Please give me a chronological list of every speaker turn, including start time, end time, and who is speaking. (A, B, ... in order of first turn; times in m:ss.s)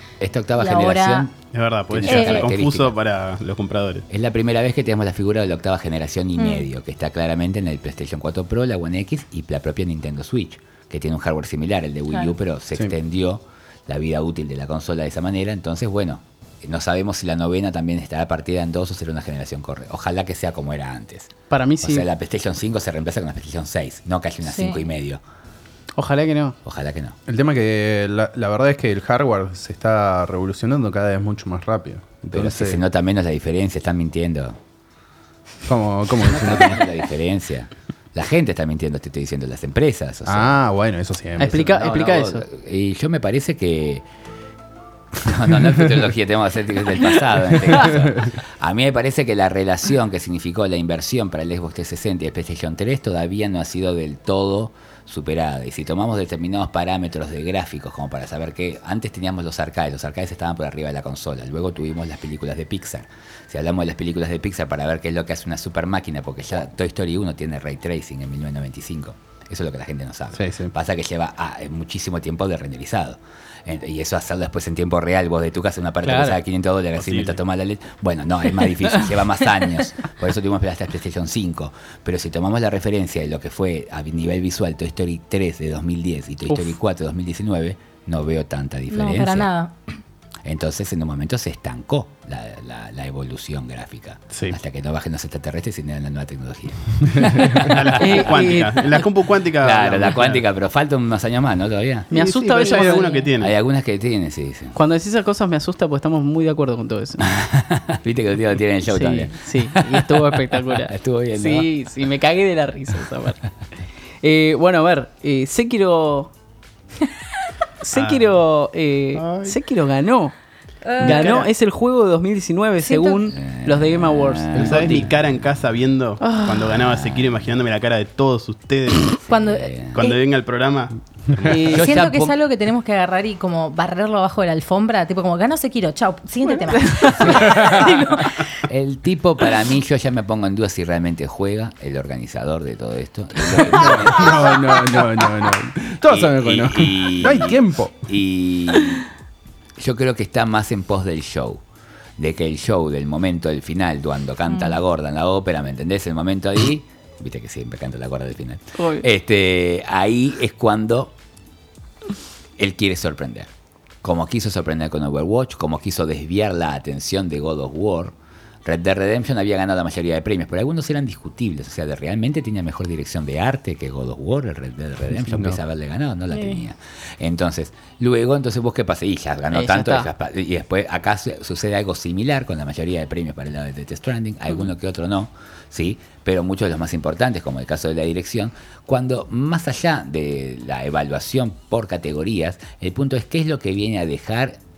0:00.2-0:01.3 A
0:00.6-0:01.3 B
0:01.5-0:04.0 C
0:01.9-0:03.0 A
0:02.0-0:02.5 B
0:04.1-0:25.2 A
0:06.4-0:06.6 B
0:21.5-0:22.0 D
0:24.4-0:24.8 B
0:26.0-0:26.6 D
0:26.6-0:27.2 A
0:27.3-0:32.8 E
0:32.3-0:34.6 A
0:35.6-0:36.8 E
0:36.2-0:40.6 A
0:40.3-0:41.6 E
0:41.4-0:44.0 A
0:41.4-0:42.4 D
0:45.1-1:29.5 A
1:10.3-1:10.7 E
1:16.0-1:16.4 D
1:17.0-1:17.4 C
1:28.9-1:29.8 B
1:30.4-1:38.3 A
1:37.5-1:40.4 C
1:38.0-1:39.0 D
1:39.6-1:42.1 A
1:42.1-1:43.2 D
1:42.1-1:43.5 C
1:42.6-1:43.2 B
1:43.4-1:44.7 A
1:44.7-1:47.2 D
1:47.2-1:51.7 A
1:48.9-1:53.4 D
1:54.2-1:56.3 D
1:57.8-2:00.3 D
1:57.9-1:58.3 C
2:00.8-2:01.4 B
2:01.0-2:05.0 D
2:01.0-2:01.4 C
2:02.8-2:03.3 B
2:03.3-2:05.2 A
2:04.5-2:09.2 C
2:04.6-2:04.9 E
2:06.2-2:06.6 D
2:06.8-2:07.4 A
2:09.2-2:10.0 A
2:09.3-2:10.2 B
2:09.9-2:11.8 C
2:11.4-2:11.8 D
2:11.6-2:18.5 B
2:11.7-2:12.4 A
2:16.8-2:17.2 D
2:17.2-2:17.8 A
2:18.6-2:25.0 A
2:23.7-2:27.9 E
2:26.0-2:29.1 A
2:29.8-2:31.6 A
2:32.2-2:41.1 A
2:34.5-2:34.7 B
2:38.8-2:39.0 D
2:42.6-2:43.5 A
2:44.0-3:14.6 A
2:55.2-2:55.6 E
2:56.3-2:56.6 B
2:59.5-3:00.1 D